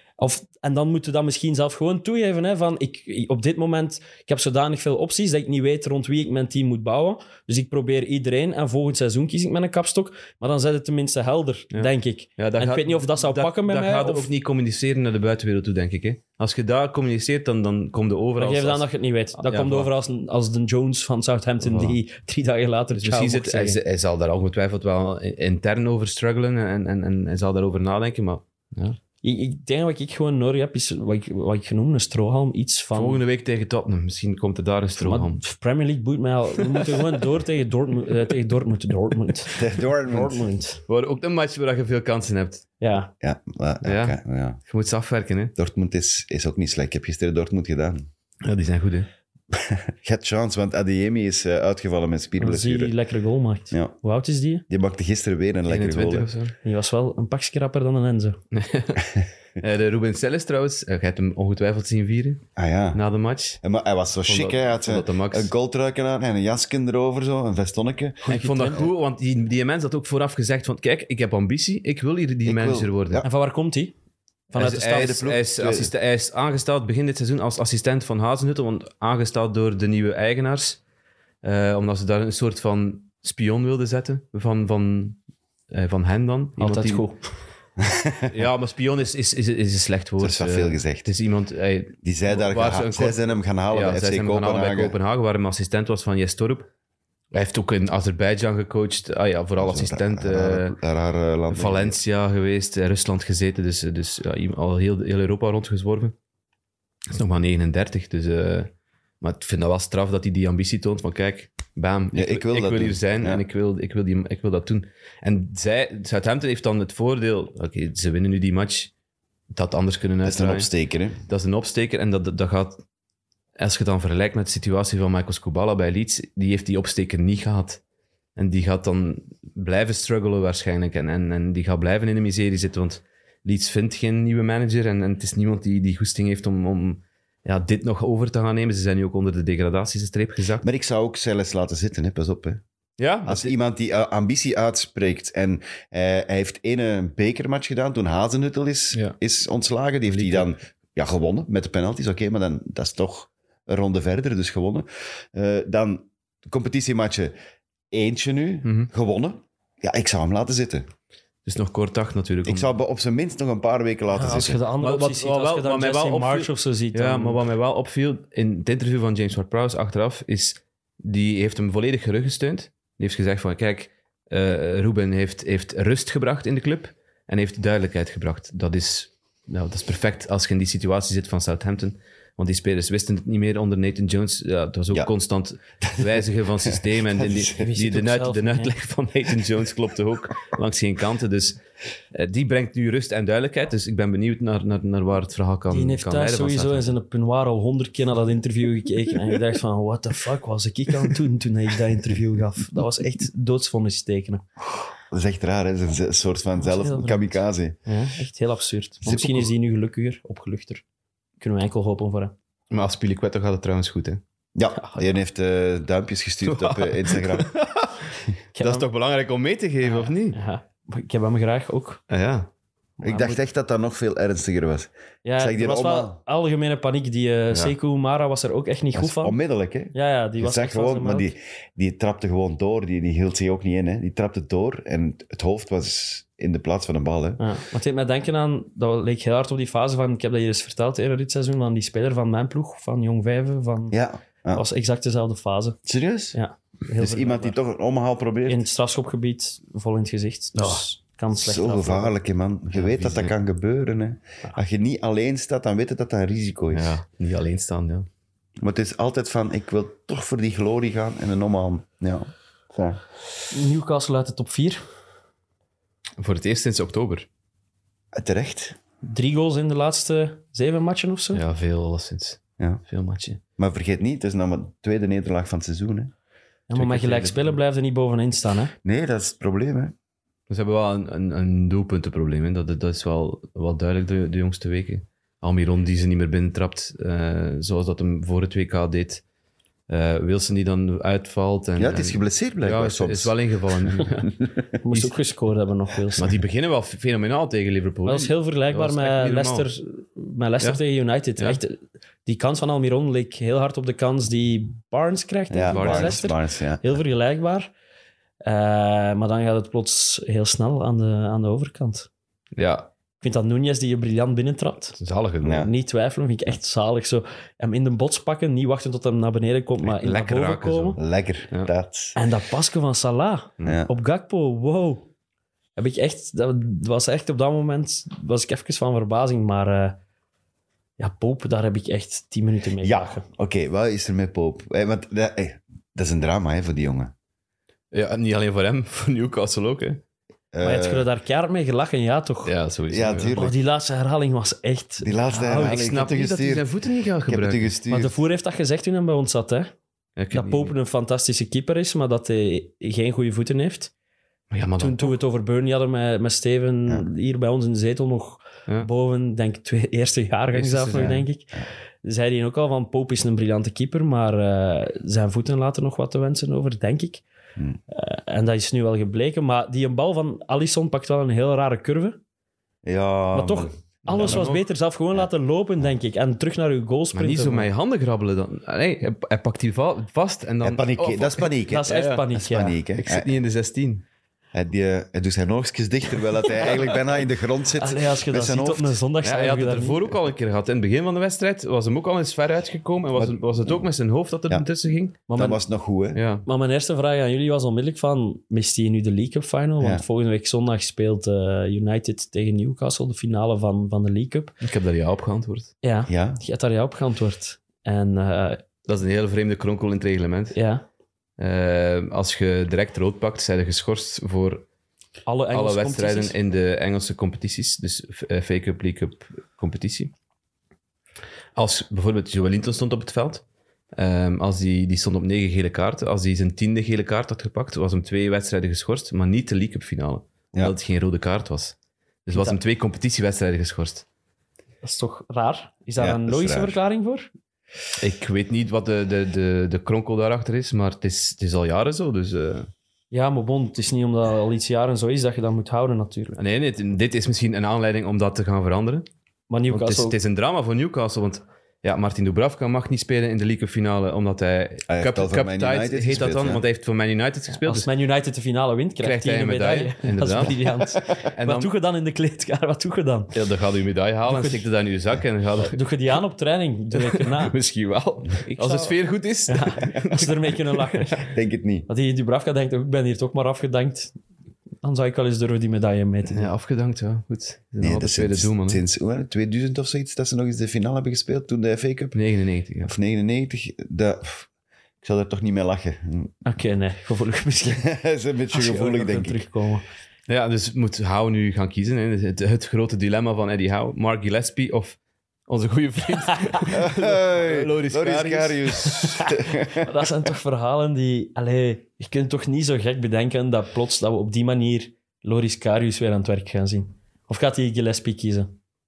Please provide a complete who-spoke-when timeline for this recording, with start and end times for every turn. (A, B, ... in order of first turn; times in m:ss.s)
0:00.2-0:14.3 A
0:11.7-0:18.9 B
0:18.4-0:23.8 A
0:19.4-0:19.9 B
0:21.6-0:22.0 B
0:22.9-0:29.0 B
0:29.2-0:33.2 A
0:32.9-0:35.4 B
0:35.0-0:40.8 A
0:39.6-0:40.4 C
0:40.9-0:42.7 B
0:42.8-0:43.1 A
0:43.2-0:44.6 C
0:43.8-0:45.5 B
0:45.6-0:48.1 C
0:48.4-0:49.1 B
0:49.5-0:52.9 C
0:52.4-0:54.6 A
0:54.7-0:56.3 C
0:55.7-0:56.6 B
0:56.6-0:58.4 A
0:58.5-1:03.6 B
1:02.6-1:03.0 C
1:03.6-1:08.3 C
1:04.2-1:05.5 B
1:08.2-1:08.8 A
1:08.3-1:13.2 B
1:12.4-1:13.3 C
1:13.2-1:13.9 A
1:14.5-1:15.0 A
1:14.5-1:20.8 B
1:14.7-1:15.9 C
1:21.4-1:25.2 B
1:25.7-1:27.1 B
1:26.6-1:27.2 A
1:27.8-1:28.3 C
1:28.3-1:36.7 B
1:30.2-1:31.1 C
1:32.0-1:35.0 C
1:37.3-1:40.8 B
1:39.6-1:42.0 C
1:41.5-1:46.2 B
1:47.1-1:58.9 B
1:52.1-1:53.4 C
1:59.5-2:00.7 B
2:00.2-2:01.2 C
2:01.3-2:02.8 B
2:03.6-2:07.8 B
2:08.4-2:20.6 B
2:20.6-2:22.6 C
2:23.0-2:23.5 B
2:23.3-2:37.3 C
2:30.1-2:30.5 B
2:37.9-2:40.9 C
2:38.6-2:38.9 B
2:41.5-2:42.7 B
2:42.4-2:44.6 C
2:44.1-2:47.4 A
2:44.8-3:11.6 B
3:05.8-3:07.6 C
3:07.6-3:08.7 A
3:12.1-3:16.9 B
3:15.7-3:24.4 A
3:25.1-3:27.8 C
3:26.6-3:30.8 A
3:29.0-3:29.5 C
3:31.4-3:32.3 A
3:32.7-3:34.2 B
3:34.6-3:37.5 C
3:36.4-3:40.4 B
3:38.6-3:38.9 A
3:39.8-3:42.0 A
3:42.1-3:42.5 B
3:43.0-3:43.4 A
3:43.0-3:46.2 C
3:45.2-3:49.4 A
3:49.0-3:57.4 C
3:49.9-3:51.3 A
3:57.4-4:04.0 A
4:03.9-4:04.6 C
4:04.5-4:05.8 A
4:05.9-4:06.4 C
4:06.3-4:07.6 A
4:07.0-4:08.6 C
4:08.5-4:12.1 A
4:10.6-4:10.8 B
4:11.4-4:17.0 C
4:12.7-4:13.3 B
4:16.7-4:18.1 B
4:18.6-4:23.0 C
4:23.5-4:24.8 A
4:26.2-4:27.3 B
4:28.1-4:28.8 C
4:29.0-4:31.4 A
4:31.3-4:33.4 B
4:33.6-4:36.1 C
4:36.7-4:38.7 A
4:36.7-4:37.6 B
4:38.8-4:39.9 C
4:40.5-4:49.2 B
4:49.9-4:54.4 B
4:51.8-4:53.4 C
4:54.0-4:54.5 C
4:54.8-4:56.3 A
4:56.2-4:59.7 B
4:58.1-5:07.7 A
5:05.5-5:06.8 C
5:05.7-5:06.2 B
5:08.4-5:12.1 A
5:12.6-5:12.9 B
5:13.2-5:15.0 A
5:15.0-5:15.7 B
5:15.4-5:15.7 C
5:15.6-5:21.0 A
5:19.8-5:21.7 B
5:21.0-5:22.2 C
5:22.2-5:25.1 A
5:23.6-5:23.9 C
5:25.8-5:30.0 A
5:31.0-5:33.2 A
5:32.8-5:37.1 C
5:37.9-5:40.0 B
5:40.5-5:41.1 C
5:40.6-5:42.5 A
5:42.4-5:43.4 B
5:42.9-5:43.6 C
5:43.3-5:45.8 A
5:45.0-5:46.7 C
5:45.6-5:47.7 B
5:47.3-5:48.2 C
5:47.9-5:49.7 A
5:50.2-5:50.7 B
5:50.3-5:53.9 A
5:54.5-5:55.2 B
5:54.8-6:07.2 A
6:00.5-6:01.2 B
6:07.9-6:12.2 A
6:12.8-6:14.5 C
6:13.3-6:17.7 A
6:14.2-6:14.6 B
6:17.1-6:22.3 B
6:20.6-6:23.3 C
6:21.7-6:22.8 A
6:23.0-6:24.0 B
6:24.5-6:29.0 C
6:27.8-6:30.2 A
6:29.2-6:35.2 B
6:33.2-6:33.8 C
6:35.3-6:35.6 A
6:35.3-6:36.2 C
6:36.1-6:36.5 B
6:36.5-6:44.5 A
6:39.8-6:40.0 C
6:44.6-6:45.7 B
6:45.8-6:48.6 A
6:46.1-6:46.4 C
6:48.9-6:50.6 B
6:50.5-6:50.8 A
6:51.4-6:54.6 B
6:55.3-6:56.4 A
6:55.5-7:00.1 B
7:01.6-7:03.4 B
7:04.0-7:14.0 B
7:14.8-7:17.3 A
7:16.0-7:16.8 C
7:18.0-7:22.7 B
7:23.1-7:26.4 A
7:26.4-7:29.1 B
7:29.5-7:30.2 A
7:29.7-7:37.9 B
7:34.9-7:36.6 C
7:37.6-7:43.3 A
7:39.0-7:40.7 B
7:41.3-7:41.7 B
7:43.3-7:45.8 B
7:44.3-7:44.6 A
7:45.7-7:47.6 A
7:47.0-7:51.1 B
7:48.6-7:51.3 A
7:51.2-7:51.9 C
7:51.9-7:54.2 A
7:54.8-7:56.5 A
7:56.3-7:58.8 B
7:57.8-8:02.2 C
8:02.1-8:02.9 B
8:02.8-8:04.5 C
8:05.0-8:06.4 C
8:06.4-8:07.9 A
8:07.8-8:09.4 C
8:08.5-8:09.8 A
8:10.3-8:19.0 B
8:16.7-8:19.9 C
8:18.9-8:28.6 A